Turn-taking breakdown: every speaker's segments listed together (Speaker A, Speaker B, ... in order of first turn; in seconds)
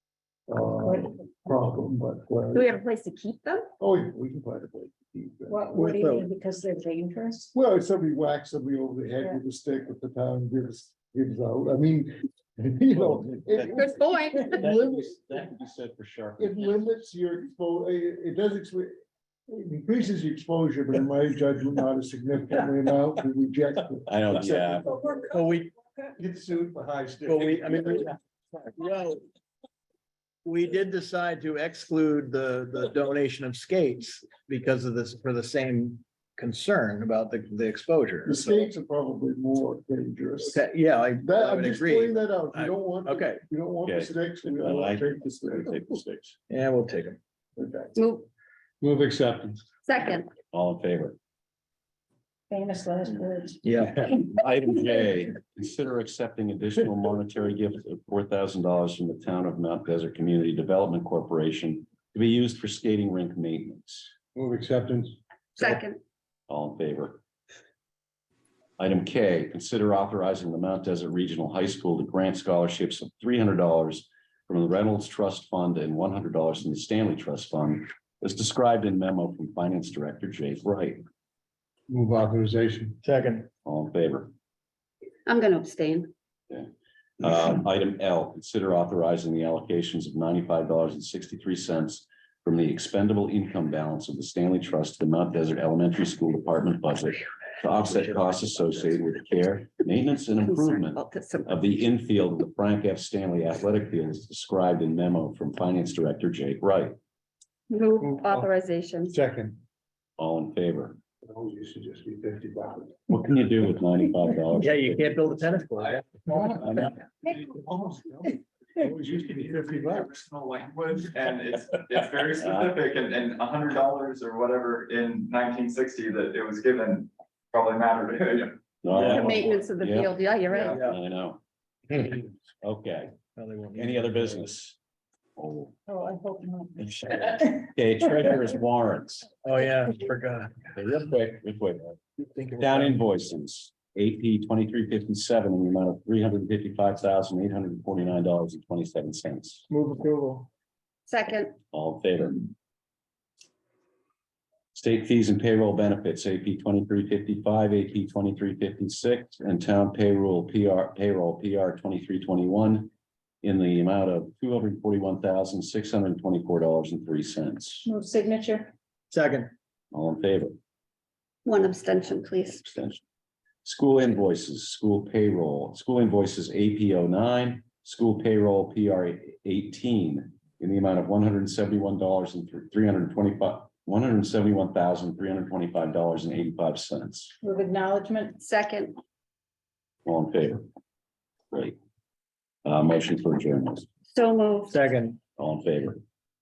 Speaker A: 0.5-2.7, 3.8-5.7, 7.5-15.3, 16.4-18.9, 19.5-25.1, 26.2-28.1, 38.2-40.6, 41.1-45.8, 47.6-47.9, 48.8-49.6, 64.3-65.7, 81.9-83.0, 108.0-108.5, 109.1-109.6, 111.2-113.0, 116.3-116.7, 117.3-120.1
Speaker B: 2.5-3.7, 13.7-14.6, 48.0-48.3, 49.8-50.3, 65.6-66.0, 85.2-86.1, 100.4-101.7, 107.7-109.2, 129.1-130.8, 151.1-151.5, 171.4-172.7, 188.4-189.0, 194.1-194.8
Speaker C: 5.5-7.5, 52.5-53.7, 135.9-136.9, 167.8-168.7, 187.4-188.4
Speaker D: 5.7-6.3, 25.2-25.7, 27.2-29.2, 30.4-38.6, 40.4-43.4, 46.5-47.2, 53.6-54.0, 83.0-83.5, 114.6-116.3, 128.9-129.3, 130.5-131.0, 133.3-134.4, 139.4-140.7, 142.2-143.0, 149.7-150.5, 169.1-169.5, 194.7-195.2
Speaker E: 12.9-16.8, 24.1-24.9, 43.9-46.4, 50.5-51.2, 53.8-64.1, 66.5-67.2, 68.8-81.0, 83.6-84.3, 87.2-107.0, 110.2-111.0, 113.1-115.2, 116.6-117.0, 122.4-122.7, 128.8-131.4, 131.9-133.2, 133.7-134.8, 135.4-135.8, 136.8-139.3, 140.7-142.0, 142.6-149.7, 151.7-152.5, 154.7-162.9, 163.4-167.9, 169.9-170.6, 172.6-173.0, 173.6-187.3, 190.0-190.7, 192.6-193.8, 195.4-196.0
Speaker F: 119.1-128.6